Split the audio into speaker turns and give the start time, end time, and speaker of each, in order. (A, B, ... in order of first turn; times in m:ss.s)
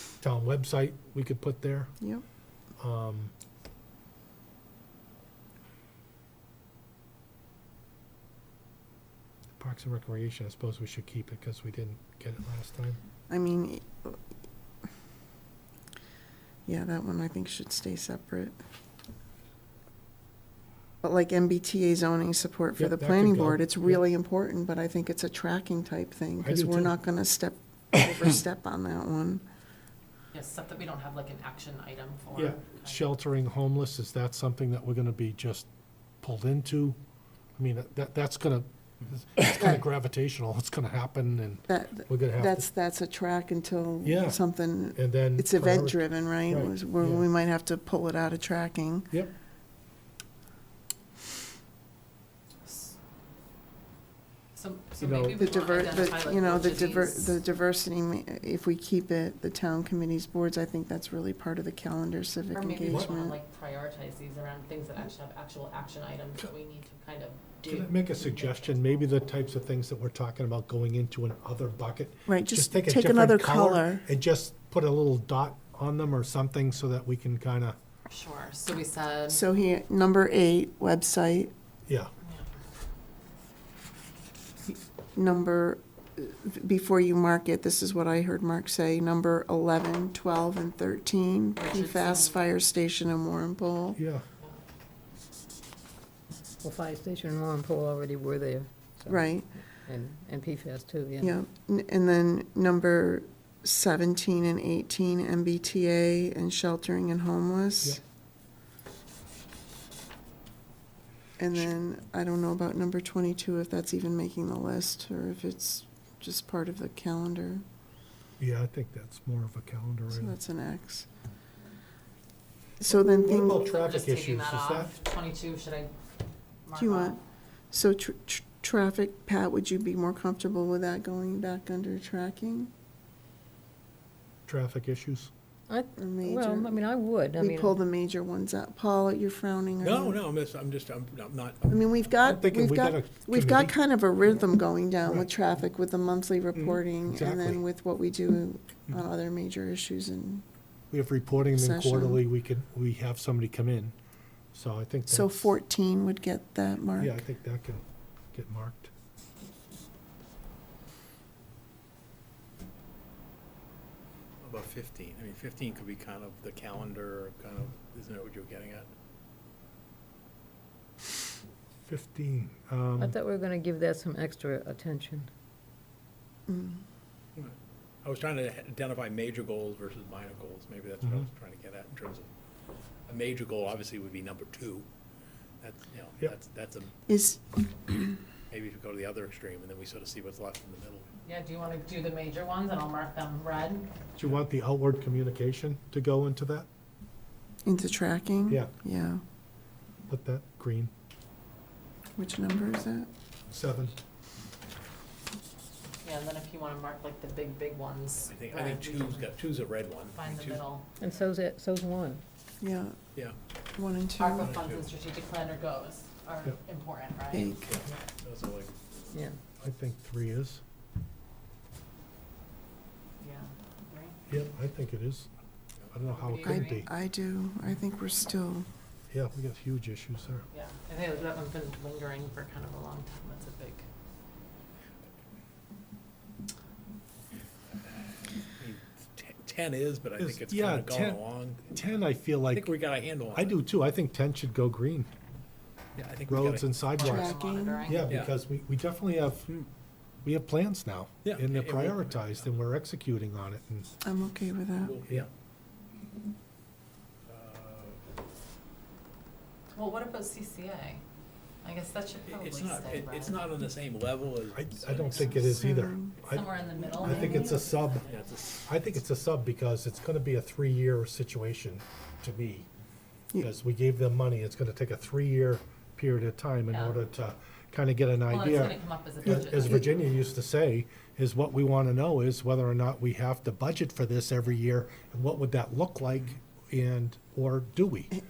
0:00.2-0:02.0 A
0:02.8-0:03.3 A
0:09.6-0:13.0 A
0:13.3-0:14.2 B
0:16.7-0:18.6 B
0:21.0-0:29.4 B
0:22.8-0:24.0 A
0:26.4-0:26.9 A
0:30.3-0:33.0 C
0:32.4-0:35.7 A
0:36.2-0:37.0 A
0:37.6-0:42.7 A
0:39.5-0:39.8 B
0:41.7-0:49.1 B
0:44.0-0:44.4 A
0:44.9-0:47.3 A
0:52.6-0:53.0 C
0:54.5-0:57.3 C
0:55.0-0:55.4 A
0:55.4-1:03.4 B
1:02.5-1:09.1 C
1:02.9-1:03.1 A
1:07.6-1:17.8 A
1:12.3-1:14.1 B
1:18.1-1:19.4 C
1:19.3-1:21.5 B
1:21.9-1:22.1 A
1:22.2-1:22.5 C
1:25.2-1:34.0 B
1:31.6-1:32.4 C
1:34.0-1:34.3 A
1:36.6-1:39.4 D
1:39.1-1:39.5 B
1:39.9-1:41.3 D
1:41.2-1:48.0 B
1:51.4-1:57.6 B
1:58.4-2:00.3 A
2:00.1-2:01.1 B
2:02.8-2:03.6 B
2:02.9-2:05.0 A
2:03.6-2:05.9 C
2:06.6-2:07.2 C
2:06.7-2:12.7 B
2:14.5-2:15.3 A
2:15.7-2:17.8 D
2:16.0-2:16.8 B
2:17.3-2:20.2 B
2:19.8-2:21.9 E
2:21.7-2:30.4 B
2:22.2-2:23.8 A
2:27.1-2:27.6 A
2:30.9-2:33.9 A
2:31.5-2:32.2 B
2:34.5-2:35.6 A
2:35.1-2:37.2 B
2:37.0-2:38.9 A
2:44.4-2:48.9 E
2:51.9-2:53.1 A
2:53.0-2:55.3 D
2:56.5-2:56.8 B
2:57.4-3:02.3 E
3:03.1-3:04.9 E
3:05.6-3:06.9 E
3:07.1-3:08.2 B
3:08.5-3:11.1 E
3:11.2-3:13.9 C
3:14.2-3:16.7 A
3:17.7-3:19.2 B
3:20.1-3:20.9 A
3:22.2-3:23.1 B
3:23.5-3:24.0 A
3:26.0-3:29.4 C
3:28.3-3:30.6 E
3:30.1-3:30.9 C
3:31.0-3:32.2 D
3:32.6-3:33.0 B
3:33.8-3:34.6 B
3:34.2-3:37.6 C
3:34.4-3:34.9 E
3:37.3-3:37.8 B
3:37.6-3:39.0 E
3:39.6-3:40.6 A
3:43.2-3:44.2 C
3:44.3-3:45.3 A
3:45.9-3:46.9 A
3:46.1-3:46.8 C
3:46.4-3:48.7 B
3:49.1-3:50.4 A
3:50.5-3:53.9 C
3:58.6-4:01.7 E
4:00.2-4:02.7 A
4:02.5-4:03.6 E
4:03.3-4:05.1 A
4:06.0-4:06.7 E
4:06.3-4:09.5 A
4:06.9-4:08.0 C
4:07.0-4:08.1 B
4:08.1-4:08.4 E
4:10.2-4:13.9 A
4:11.2-4:12.5 E
4:14.0-4:14.9 B
4:14.8-4:15.3 E
4:17.3-4:18.0 E
4:19.7-4:21.0 C
4:21.6-4:23.5 C
4:22.3-4:25.6 E
4:24.5-4:26.5 A
4:25.5-4:26.2 B
4:26.2-4:28.1 C
4:27.0-4:28.1 A
4:27.0-4:27.5 E
4:28.0-4:28.6 E
4:28.6-4:32.7 A
4:33.4-4:48.1 A
4:36.7-4:37.0 C
4:38.3-4:40.0 C